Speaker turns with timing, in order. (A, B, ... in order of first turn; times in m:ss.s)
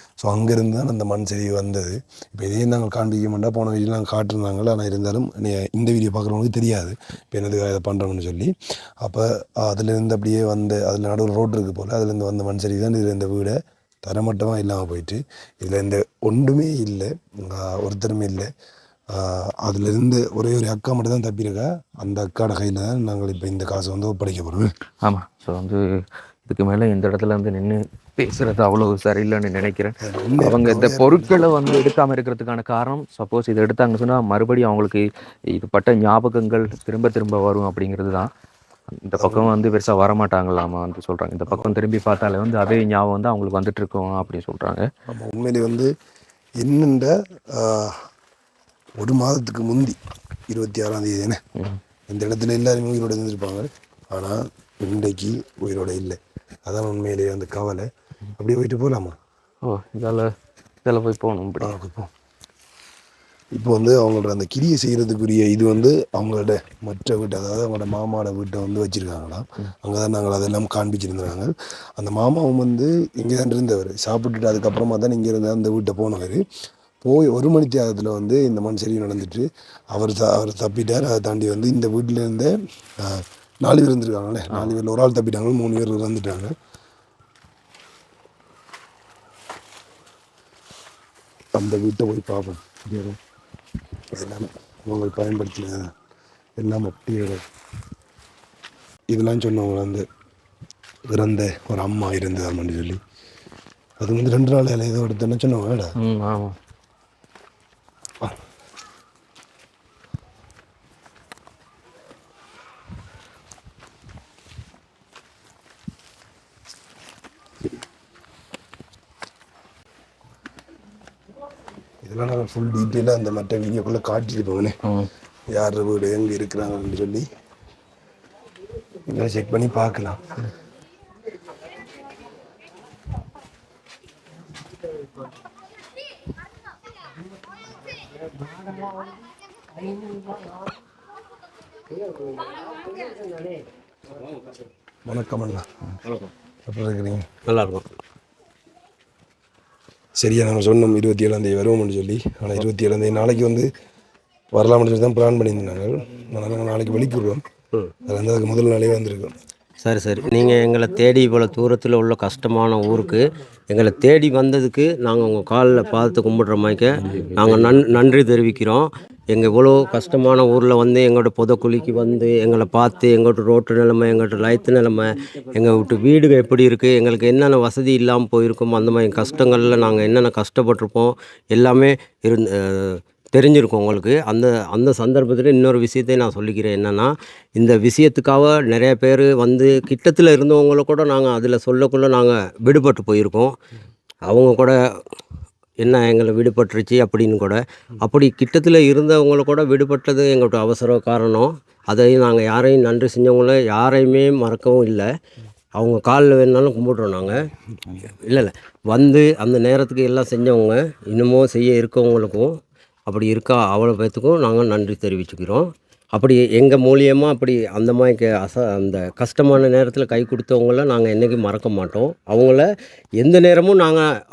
0:00.2-0:18.5 A
0:19.1-0:24.7 A
0:25.0-0:38.3 B
0:30.0-0:31.4 A
0:39.0-0:44.9 B
0:39.2-0:39.5 A
0:45.1-0:45.9 A
0:46.6-0:48.0 A
0:49.0-0:50.0 A
0:50.5-0:51.4 A
0:52.1-0:57.9 A
0:58.4-0:59.2 A
0:59.6-1:00.3 B
1:00.8-1:01.7 B
1:01.6-1:02.1 A
1:03.5-1:16.4 A
1:17.0-1:26.6 A
1:31.6-1:33.2 A
1:34.1-1:35.9 A
1:36.6-1:37.4 A
1:39.1-1:40.0 A
1:41.1-1:43.0 A
1:44.0-1:46.0 A
1:46.0-1:46.6 B
2:02.0-2:04.8 A
2:05.5-2:07.3 A
2:09.1-2:10.2 A
2:25.1-2:25.7 A
2:26.0-2:26.3 C
2:26.7-2:27.3 A
2:27.5-2:27.9 C
2:30.2-2:33.7 A
2:34.5-2:37.4 A
2:38.1-2:39.3 A
2:39.8-3:13.6 C
2:47.0-2:48.0 B
3:14.3-3:14.8 C
3:15.8-3:25.1 C
3:25.8-3:27.5 C
3:28.0-3:32.5 C
3:33.1-3:42.7 C
3:43.2-3:44.1 C